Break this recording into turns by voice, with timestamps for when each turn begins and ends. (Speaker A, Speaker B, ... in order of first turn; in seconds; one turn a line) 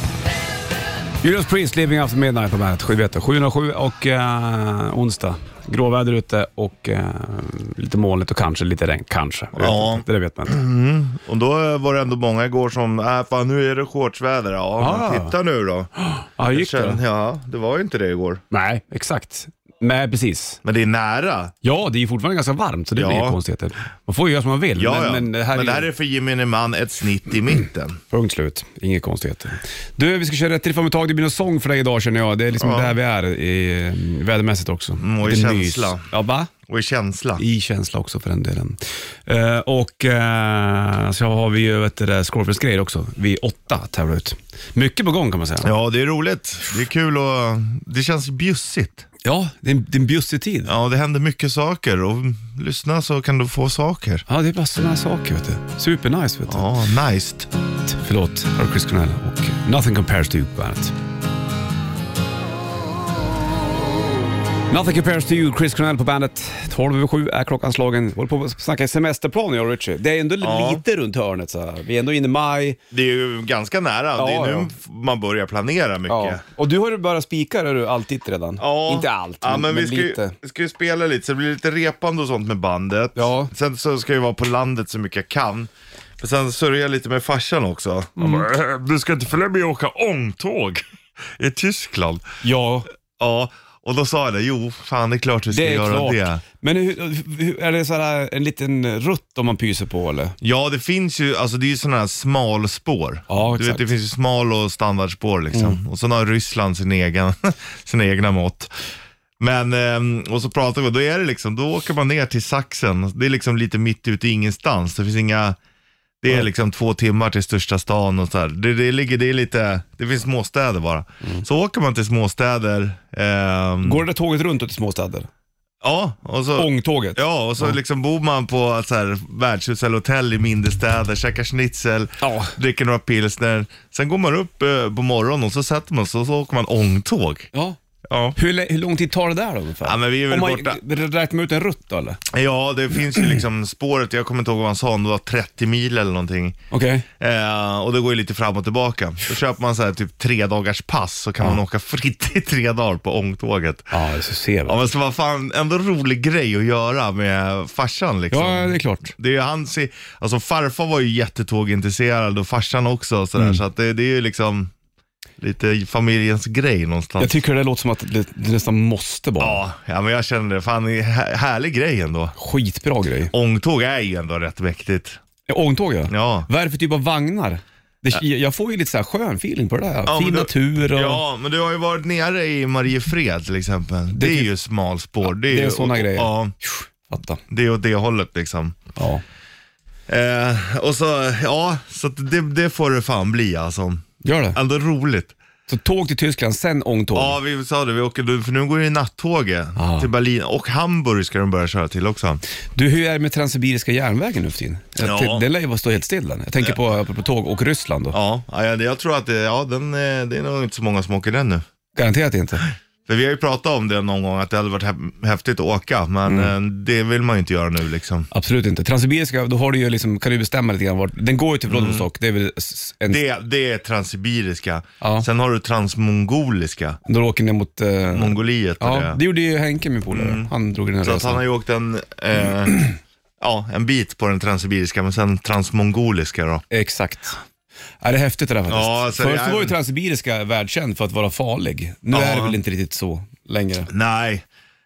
Speaker A: 1.2-10.6
Speaker B: 9.6-15.9
Speaker A: 14.8-15.4
Speaker A: 16.0-17.0
Speaker B: 16.5-18.4
Speaker A: 18.5-20.6
Speaker B: 20.6-21.5
Speaker A: 21.6-25.9
Speaker B: 23.0-23.4
Speaker B: 24.8-28.0
Speaker A: 28.1-36.5
Speaker B: 32.6-33.0
Speaker B: 35.0-36.0
Speaker B: 36.7-37.4
Speaker A: 37.4-45.7
Speaker B: 45.6-49.1
Speaker A: 49.2-50.7
Speaker B: 50.6-54.2
Speaker A: 54.3-56.7
Speaker B: 56.5-57.5
Speaker A: 57.9-60.9
Speaker A: 64.7-72.8
Speaker B: 70.4-70.8
Speaker B: 72.9-76.4
Speaker A: 74.2-74.7
Speaker A: 76.1-80.4
Speaker B: 78.6-92.3
Speaker A: 83.2-83.5
Speaker A: 88.2-88.5
Speaker A: 92.4-92.9
Speaker B: 93.2-96.4
Speaker A: 95.5-100.4
Speaker B: 100.4-108.7
Speaker A: 103.3-103.9
Speaker B: 109.4-115.6
Speaker B: 116.2-124.0
Speaker A: 123.8-125.3
Speaker B: 125.8-137.5
Speaker A: 126.6-127.8
Speaker A: 132.2-132.6
Speaker B: 138.1-138.4
Speaker A: 138.4-142.2
Speaker B: 139.8-140.8
Speaker B: 142.3-146.6
Speaker A: 146.7-147.1
Speaker B: 147.2-153.9
Speaker A: 153.9-154.8
Speaker B: 154.7-164.7
Speaker A: 158.3-159.1
Speaker B: 165.4-167.4
Speaker A: 167.2-169.6
Speaker B: 169.4-172.3
Speaker A: 172.4-173.3
Speaker B: 173.3-175.2
Speaker A: 175.5-181.2
Speaker B: 176.1-176.5
Speaker B: 180.1-186.6
Speaker A: 184.1-184.5
Speaker A: 185.3-187.4
Speaker B: 187.5-188.8
Speaker A: 189.0-189.2
Speaker B: 190.1-195.4
Speaker A: 194.2-194.6
Speaker A: 195.7-197.4
Speaker B: 197.1-202.4
Speaker A: 199.8-200.1
Speaker A: 202.8-208.2
Speaker B: 205.0-205.5
Speaker B: 208.1-211.6
Speaker A: 212.0-212.7
Speaker B: 213.1-218.3
Speaker A: 216.3-216.5
Speaker A: 218.3-223.2
Speaker B: 221.7-222.1
Speaker B: 223.1-227.0
Speaker A: 225.0-225.3
Speaker A: 227.1-231.4
Speaker B: 228.1-229.2
Speaker B: 230.1-230.5
Speaker B: 231.0-232.8
Speaker B: 233.4-236.6
Speaker A: 236.7-237.4
Speaker A: 238.0-243.9
Speaker B: 238.7-239.8
Speaker B: 242.1-242.6
Speaker B: 243.9-244.4